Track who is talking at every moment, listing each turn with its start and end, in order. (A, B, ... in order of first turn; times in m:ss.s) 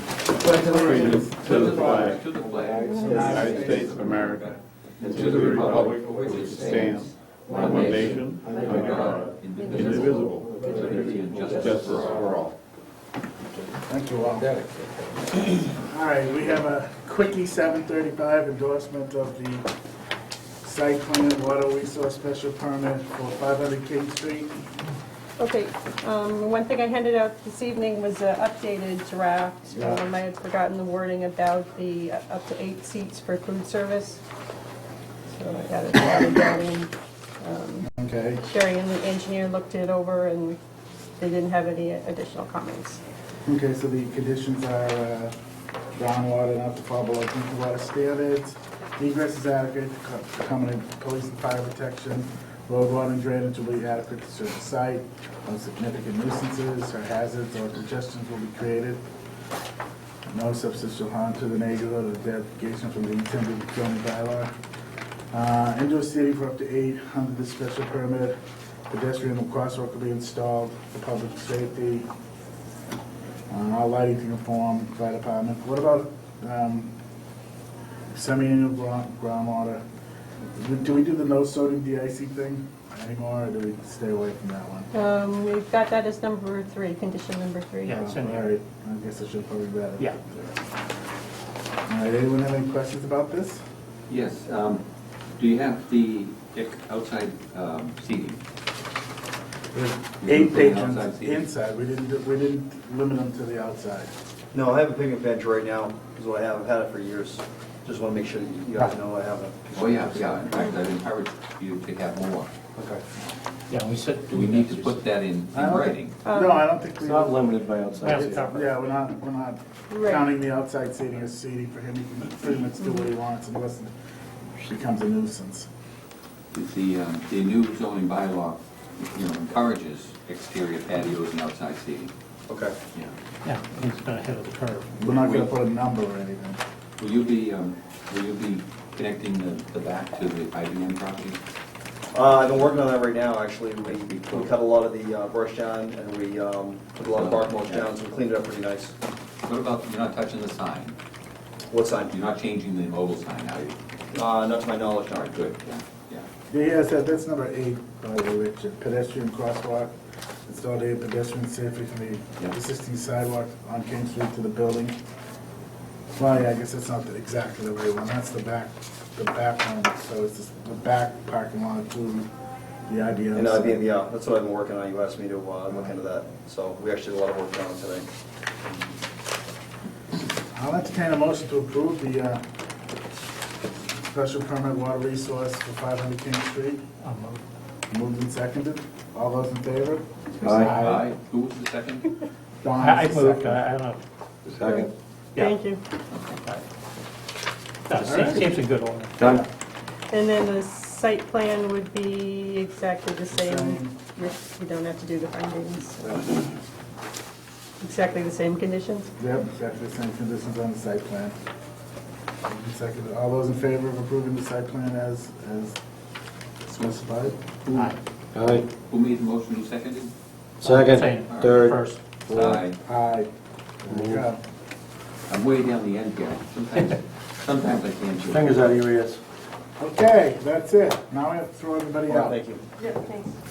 0:00.3-0:02.2 A
0:00.8-0:02.3 B
0:01.4-0:12.4 C
0:02.4-0:03.4 D
0:02.9-0:03.3 E
0:03.0-0:04.0 A
0:03.2-0:04.5 B
0:05.1-0:12.5 B
0:08.4-0:09.2 D
0:10.4-0:12.1 D
0:13.9-0:14.5 A
0:14.4-0:14.7 D
0:15.6-0:19.7 A
0:20.6-0:24.6 A
0:25.4-0:34.2 E
0:29.7-0:30.0 A
0:35.3-0:37.9 E
0:37.9-0:38.4 A
0:38.4-0:40.6 E
0:41.2-0:43.0 E
0:43.4-0:45.3 A
0:46.0-0:59.0 A
1:00.3-1:04.5 A
1:05.3-1:08.3 A
1:08.9-1:12.1 A
1:13.5-1:16.9 A
1:18.1-1:19.8 A
1:20.6-1:24.9 A
1:24.9-1:28.0 E
1:27.8-1:28.5 F
1:27.9-1:30.5 A
1:31.9-1:33.6 A
1:34.1-1:34.8 C
1:35.4-1:38.4 C
1:39.7-1:44.1 A
1:40.2-1:41.4 C
1:44.5-1:50.6 G
1:49.7-1:52.5 C
1:53.7-1:55.0 F
1:54.3-1:56.2 C
1:55.5-2:03.9 A
1:56.2-1:56.6 E
1:57.0-1:58.5 D
1:58.0-1:58.7 F
1:59.9-2:00.2 E
2:04.6-2:05.7 A
2:06.5-2:12.1 C
2:12.5-2:12.8 G
2:13.4-2:15.1 F
2:15.0-2:16.6 A
2:17.0-2:21.4 C
2:22.1-2:28.9 G
2:23.8-2:24.5 C
2:27.1-2:27.9 C
2:29.4-2:30.9 C
2:31.7-2:32.1 G
2:32.1-2:33.7 C
2:34.1-2:35.4 G
2:35.1-2:36.3 C
2:36.5-2:39.9 A
2:40.4-2:45.0 A
2:46.2-2:52.3 A
2:52.9-2:53.8 A
2:53.3-2:58.0 G
3:00.5-3:02.4 A
3:04.1-3:06.8 A
3:07.0-3:07.4 F
3:07.9-3:11.0 A
3:10.4-3:10.7 D
3:10.6-3:12.1 C
3:12.6-3:13.6 A
3:12.8-3:14.0 F
3:14.5-3:14.9 D
3:15.4-3:15.8 E
3:16.1-3:16.4 C
3:17.8-3:19.3 F
3:18.0-3:18.4 A
3:20.1-3:26.3 E
3:23.3-3:24.0 A
3:27.8-3:29.1 E
3:29.2-3:31.4 A
3:32.4-3:35.8 A
3:36.6-3:37.4 A
3:37.6-3:40.1 C
3:38.3-3:38.6 D
3:40.6-3:42.0 F
3:40.6-3:42.6 D
3:40.6-3:41.7 C
3:42.3-3:42.8 C
3:42.6-3:43.3 A
3:43.8-3:44.4 A
3:43.9-3:44.2 D
3:45.3-3:48.7 C
3:48.3-3:49.2 D
3:49.8-3:52.4 A
3:52.1-3:52.6 G
3:52.8-3:53.3 E